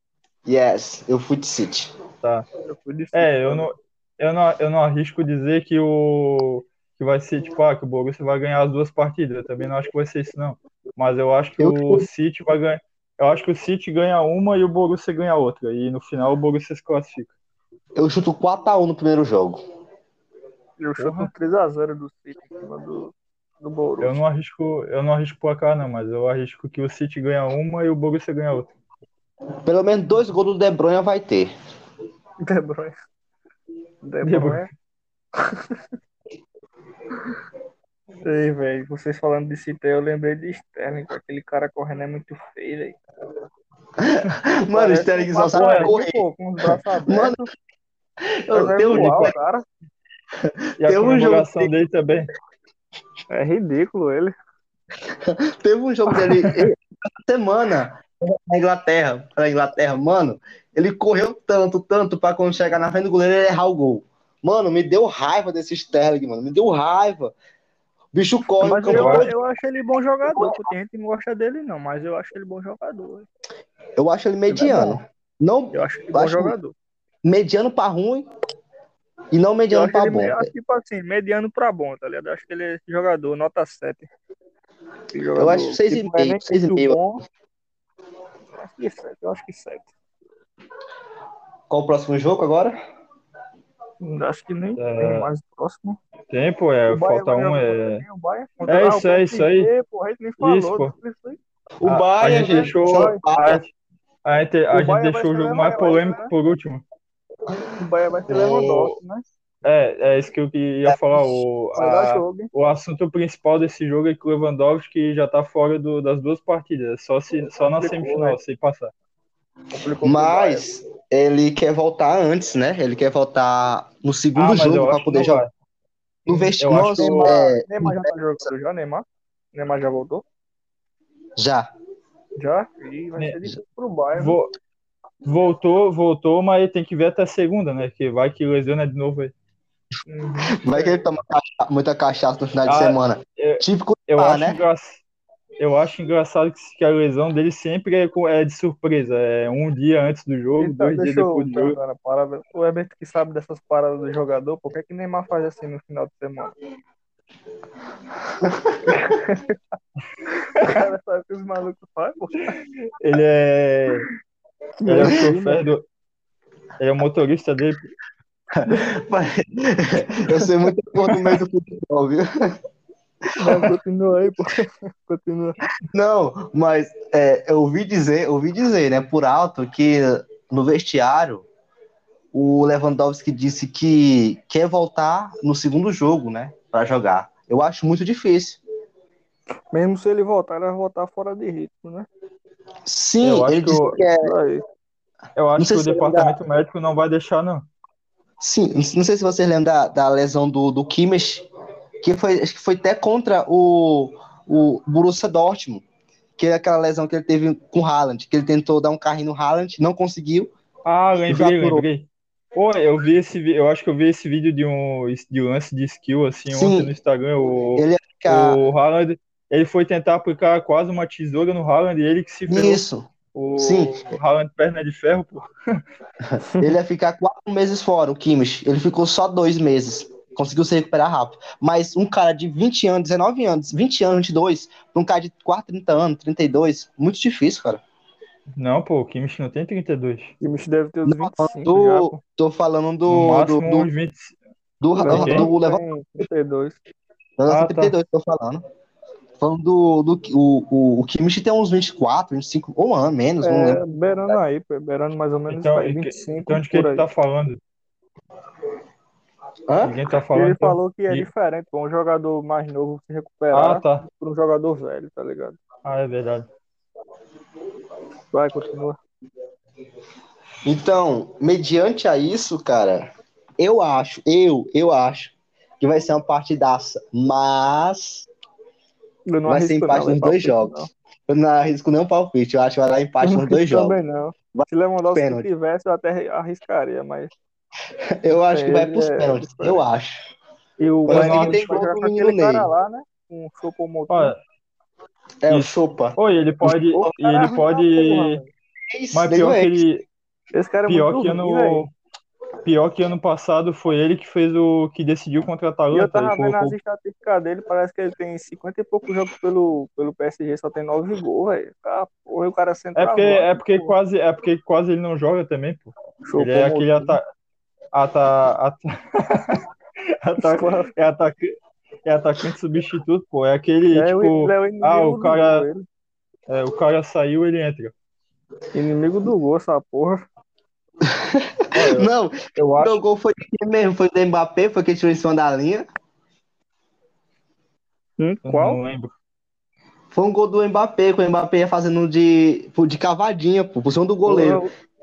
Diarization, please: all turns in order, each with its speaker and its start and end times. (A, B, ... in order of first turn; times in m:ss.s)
0:00.4-0:01.9 A
0:02.6-0:03.7 B
0:03.1-0:17.3 C
0:11.6-0:12.1 A
0:18.0-0:19.6 A
0:20.8-0:24.2 B
0:21.0-0:21.3 C
0:24.0-0:28.7 C
0:29.6-0:31.5 A
0:32.4-0:32.9 B
0:34.0-0:34.7 B
0:34.2-0:34.7 C
0:35.4-0:35.8 B
0:38.2-0:43.0 B
0:44.0-0:47.4 A
0:44.7-0:47.5 B
0:45.5-0:45.9 C
0:48.5-0:49.3 A
0:48.5-0:49.6 B
0:50.4-0:51.7 A
0:50.8-0:52.3 C
0:53.3-0:54.3 B
0:55.2-1:07.3 A
1:08.1-1:09.3 A
1:08.6-1:13.3 B
1:08.9-1:09.3 C
1:10.3-1:10.7 A
1:14.0-1:16.5 A
1:14.5-1:15.0 B
1:15.7-1:16.7 B
1:17.2-1:18.3 A
1:19.3-1:20.5 A
1:19.7-1:24.1 B
1:25.1-1:27.2 B
1:25.4-1:27.0 A
1:28.6-1:29.9 B
1:31.7-1:32.8 A
1:34.0-1:36.0 B
1:34.8-1:35.3 C
1:36.3-1:38.0 C
1:36.9-1:41.4 B
1:38.7-1:39.7 C
1:40.4-1:40.9 C
1:41.8-1:43.6 A
1:41.8-1:43.7 C
1:42.4-1:43.2 B
1:44.2-1:46.8 C
1:44.7-1:46.3 B
1:47.7-1:49.2 B
1:48.3-1:48.9 A
1:49.6-1:58.9 C
1:51.7-1:52.5 B
1:57.7-1:58.4 B
1:59.7-2:00.6 B
2:00.0-2:05.4 A
2:04.4-2:05.5 C
2:06.2-2:08.5 A
2:06.3-2:07.3 C
2:06.9-2:10.2 B
2:11.4-2:11.7 A
2:12.4-2:14.4 B
2:14.2-2:14.5 C
2:15.2-2:19.3 C
2:20.1-2:21.0 B
2:20.5-2:24.6 A
2:22.6-2:25.0 C
2:25.6-2:31.8 C
2:30.6-2:36.5 B
2:38.4-2:38.7 A
2:38.8-2:39.6 B
2:40.6-2:42.5 B
2:43.0-2:44.1 C
2:44.8-2:45.7 B
2:44.8-2:45.8 C
2:46.8-2:47.9 C
2:48.5-2:52.5 A
2:53.3-2:53.8 A
2:53.4-2:55.6 B
2:55.9-3:01.5 A
3:02.3-3:08.6 A
3:09.7-3:12.1 B
3:12.8-3:14.3 A
3:13.2-3:14.0 C
3:14.1-3:14.6 B
3:15.4-3:17.7 C
3:15.6-3:16.4 A
3:18.4-3:21.5 A
3:22.0-3:25.8 A
3:26.4-3:30.5 A
3:30.8-3:45.5 C
3:31.2-3:31.8 A
3:36.5-3:36.9 A
3:37.8-3:38.6 A
3:42.5-3:44.0 A
3:46.2-3:57.8 A
3:58.5-4:00.3 C
4:00.4-4:02.2 B
4:01.0-4:03.9 A
4:03.1-4:04.4 C
4:04.8-4:05.8 A
4:05.0-4:06.8 B
4:05.1-4:05.5 C
4:07.4-4:08.6 A
4:07.5-4:07.9 C
4:09.4-4:13.8 A
4:13.4-4:17.0 B
4:15.5-4:17.6 C
4:19.7-4:20.0 A
4:19.8-4:21.3 C
4:20.3-4:25.6 B
4:23.5-4:24.0 C
4:25.8-4:26.5 C
4:28.3-4:29.0 B
4:30.6-4:33.0 A
4:33.6-4:38.3 A
4:39.3-4:40.9 B
4:39.4-4:44.0 A
4:43.2-4:47.3 B
4:44.5-4:45.4 A
4:48.2-4:50.2 A
4:48.3-4:49.8 B
4:50.8-4:54.3 B
4:51.1-4:52.7 A
4:51.1-4:51.8 C
4:54.1-4:54.4 C
4:55.4-4:56.8 A
4:55.5-4:58.4 C
4:56.9-4:58.5 B
4:58.9-4:59.8 A
4:59.1-5:00.0 C
5:00.5-5:01.8 B
5:00.9-5:01.9 C
5:02.6-5:06.8 C
5:05.9-5:13.9 B
5:13.0-5:17.2 C
5:16.2-5:17.2 B
5:17.9-5:19.6 C
5:20.2-5:21.5 C
5:20.4-5:20.9 B
5:22.0-5:25.7 C
5:23.9-5:25.8 B
5:26.5-5:27.9 C
5:28.7-5:30.2 B
5:31.0-5:35.8 A
5:31.7-5:33.0 C
5:38.2-5:38.8 B
5:38.4-5:39.1 C
5:40.1-5:44.6 A
5:44.3-5:44.7 B